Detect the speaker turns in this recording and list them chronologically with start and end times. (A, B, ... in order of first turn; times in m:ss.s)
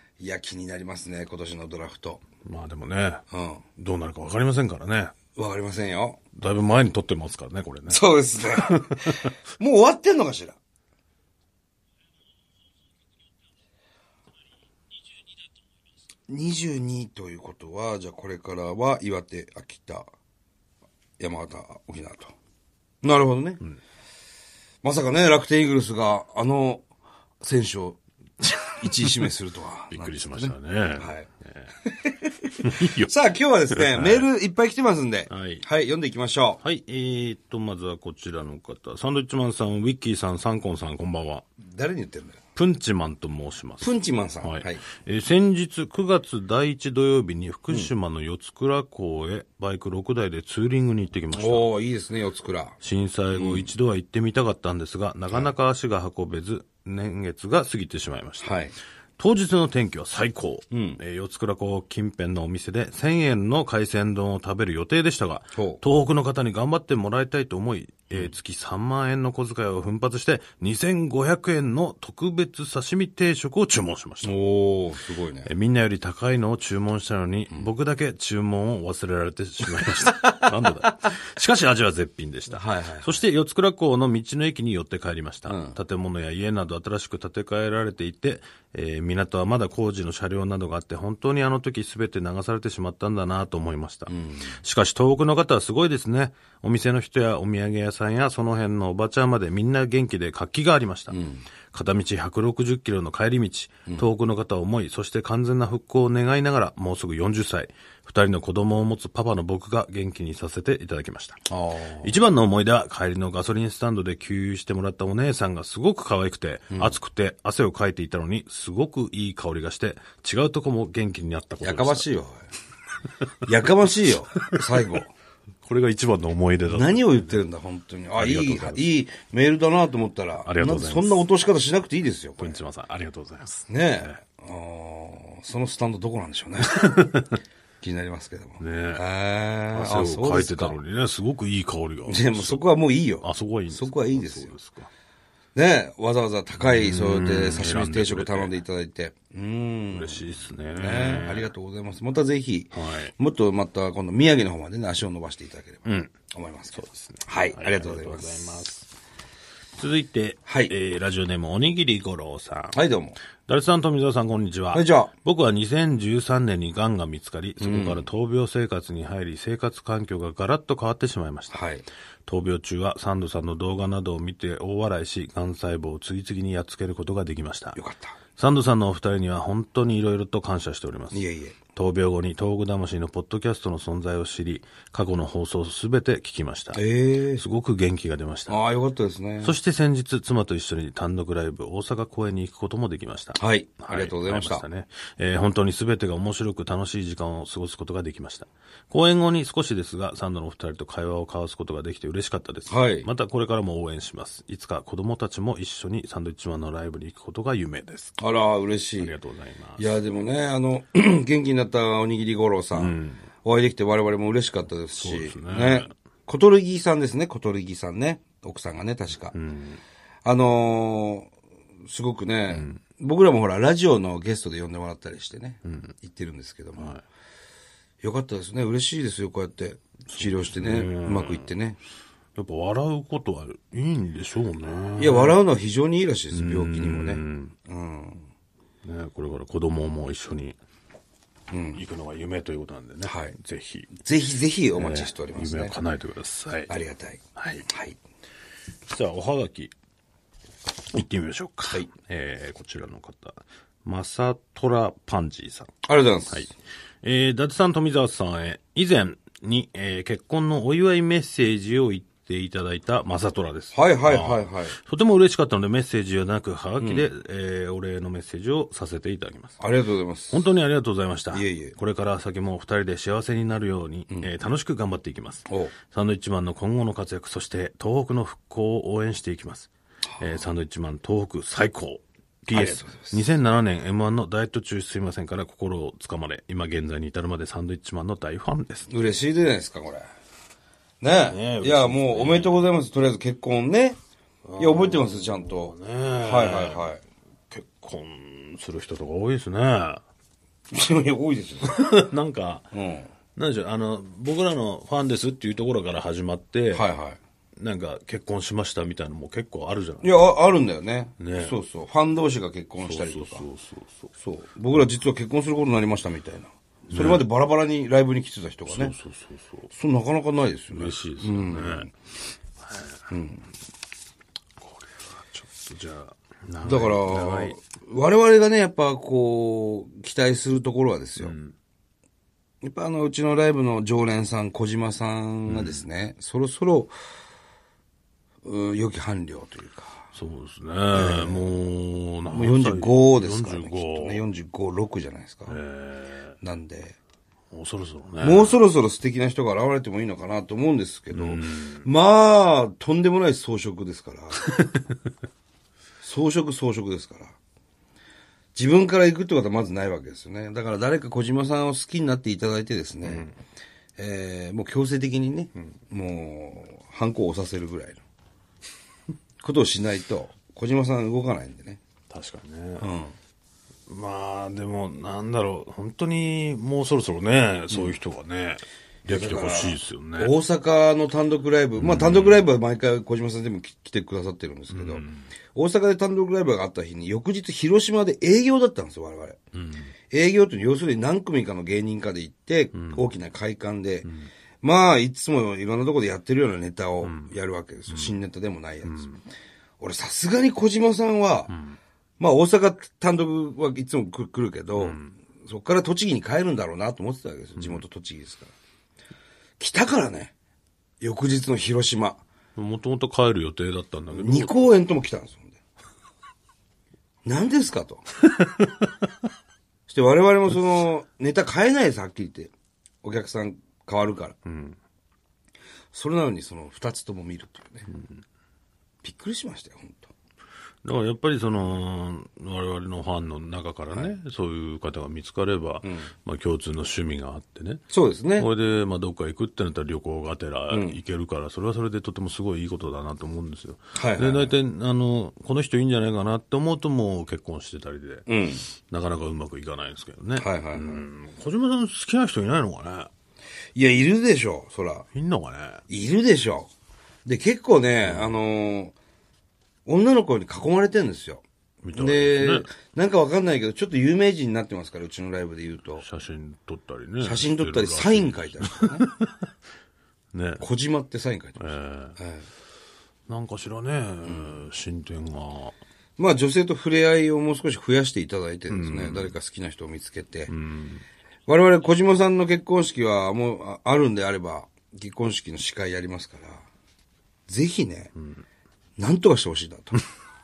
0:00.2-0:02.2 A
0:02.4-0:03.2 B
0:03.3-0:03.6 A
0:03.8-0:05.1 B
0:05.3-0:06.2 A
0:06.3-0:09.3 B
0:07.9-0:10.6 A
0:16.3-0:20.0 A
0:21.2-0:22.3 A
0:23.0-0:23.6 A
0:24.8-0:26.8 A
0:27.4-0:31.3 A
0:29.9-0:31.7 B
0:31.8-0:36.6 A
0:32.6-0:33.1 B
0:33.7-0:34.3 B
0:35.3-0:35.6 B
0:36.6-0:41.4 B
0:41.7-0:42.4 A
0:42.6-0:43.9 B
0:43.8-0:44.8 A
0:44.4-0:51.7 B
0:51.3-0:52.8 A
0:52.8-0:58.6 B
0:53.3-0:53.7 A
0:58.4-0:58.7 A
0:59.2-1:14.3 B
1:00.7-1:01.0 A
1:05.5-1:05.8 A
1:14.2-1:15.5 A
1:15.4-1:41.2 B
1:22.5-1:23.2 A
1:25.5-1:25.8 A
1:34.1-1:34.6 A
1:41.1-1:41.4 A
1:41.7-1:51.5 B
1:51.5-1:52.1 A
1:52.0-2:02.0 B
1:56.7-1:57.0 A
2:01.6-2:02.5 A
2:03.4-2:05.1 A
2:05.6-2:07.3 B
2:06.7-2:12.6 A
2:08.1-2:08.9 B
2:10.4-2:11.2 B
2:12.4-2:14.1 B
2:13.7-2:17.0 A
2:16.6-2:17.4 B
2:17.8-2:20.8 A
2:18.6-2:19.0 B
2:19.7-2:22.6 B
2:22.0-2:24.6 A
2:23.2-2:24.9 B
2:25.5-2:30.2 A
2:26.6-2:28.5 B
2:29.9-2:31.5 B
2:30.8-2:38.5 A
2:32.7-2:33.1 B
2:35.8-2:36.1 B
2:36.7-2:38.8 B
2:39.8-2:42.8 B
2:40.5-2:40.7 A
2:42.7-2:43.2 A
2:43.4-2:51.6 B
2:44.7-2:45.1 A
2:47.6-2:48.0 A
2:51.5-2:51.8 A
2:52.2-2:57.8 B
2:57.7-2:58.2 A
2:58.4-3:01.2 B
3:01.1-3:01.6 A
3:01.7-3:06.8 B
3:06.7-3:07.4 A
3:07.4-3:08.6 B
3:08.5-3:09.6 A
3:09.4-3:28.2 B
3:13.4-3:14.6 A
3:22.7-3:23.1 A
3:28.2-3:29.1 A
3:29.0-3:30.0 B
3:29.8-3:39.3 A
3:32.7-3:33.2 B
3:35.0-3:35.9 B
3:39.3-3:39.8 B
3:40.2-3:41.3 A
3:41.8-3:47.0 A
3:42.5-3:42.8 B
3:45.6-3:45.9 B
3:46.8-3:47.0 B
3:48.0-3:51.8 A
3:50.1-3:51.5 B
3:52.4-3:55.4 B
3:55.0-3:58.3 A
3:56.3-3:57.5 B
3:58.8-4:00.6 B
4:01.5-4:01.8 A
4:01.7-4:03.9 B
4:03.0-4:03.4 A
4:04.0-4:05.7 A
4:04.7-4:06.7 B
4:06.7-4:08.0 A
4:07.4-4:07.7 B
4:08.9-4:09.7 B
4:10.9-4:15.7 B
4:15.8-4:16.5 A
4:17.0-4:29.6 B
4:23.7-4:24.8 A
4:26.8-4:27.0 A
4:29.6-4:30.4 A
4:30.3-4:48.9 B
4:31.3-4:31.8 A
4:35.5-4:35.7 A
4:42.5-4:43.2 A
4:48.9-4:50.0 A
4:51.0-4:54.0 A
4:51.3-4:52.6 B
4:54.4-4:56.9 B
4:54.6-4:57.0 A
4:57.5-5:00.0 B
5:00.7-5:01.9 A
5:01.6-5:02.6 B
5:02.7-5:03.1 A
5:03.4-5:06.9 B
5:06.7-5:07.2 A
5:07.6-5:10.1 B
5:10.0-5:13.4 A
5:11.2-5:11.6 B
5:12.8-5:14.1 B
5:14.2-5:18.9 A
5:16.9-5:17.2 B
5:18.7-5:19.7 B
5:19.7-5:21.9 A
5:20.7-5:21.9 B
5:22.6-5:23.0 B
5:23.1-5:23.4 A
5:24.6-5:27.6 B
5:26.6-5:31.3 A
5:31.2-5:31.5 B
5:32.6-5:36.9 A
5:35.5-5:35.8 B
5:38.4-5:40.1 A
5:40.1-5:44.2 B
5:40.9-5:41.5 A
5:42.3-5:45.6 A
5:45.5-5:46.4 B
5:46.4-5:47.0 A
5:47.5-5:48.6 B
5:48.2-5:54.5 A
5:51.1-5:51.9 B
5:54.5-5:54.8 B
5:56.0-5:57.4 A
5:58.5-6:03.3 A
6:03.0-6:03.3 B
6:04.0-6:08.0 A
6:09.4-6:11.8 A
6:12.1-6:12.8 B
6:12.8-6:13.2 A
6:13.9-6:20.3 B
6:17.7-6:18.0 A
6:19.0-6:29.4 A
6:21.8-6:22.5 B
6:24.7-6:25.3 B
6:29.5-6:29.9 B
6:30.1-6:34.1 A
6:32.7-6:33.0 B
6:34.6-6:39.1 A
6:37.0-6:37.3 B
6:37.9-6:38.2 B
6:38.8-6:39.2 B
6:39.8-6:41.6 A
6:41.5-6:41.8 B
6:42.2-6:48.5 A
6:44.8-6:45.1 B
6:49.6-6:50.3 A
6:51.0-6:52.2 A
6:52.6-6:54.5 B
6:54.1-6:55.6 A
6:57.2-6:58.0 A
6:58.6-6:58.8 B
6:59.9-7:02.5 A
7:03.0-7:04.4 A
7:04.4-7:04.8 B
7:05.9-7:07.9 A
7:09.0-7:10.1 A
7:10.8-7:17.8 B
7:15.8-7:16.1 A
7:17.9-7:18.5 A
7:18.4-7:33.1 B
7:20.7-7:21.0 A
7:23.9-7:24.5 A
7:28.3-7:28.7 A
7:30.4-7:31.0 A
7:33.7-7:35.1 A
7:35.1-7:35.8 B
7:35.9-7:36.7 A
7:37.2-7:38.9 A
7:38.0-7:38.3 B
7:39.8-7:46.0 A
7:41.8-7:42.7 B
7:46.0-7:49.4 B
7:47.2-7:49.1 A
7:50.3-7:50.6 B
7:50.6-7:52.5 A
7:51.6-7:52.2 B
7:53.3-7:55.8 B
7:54.2-7:54.6 A
7:56.2-8:00.5 A
7:58.7-7:59.3 B
8:00.5-8:01.0 B
8:01.5-8:06.6 A
8:07.5-8:08.1 A
8:09.0-8:10.0 A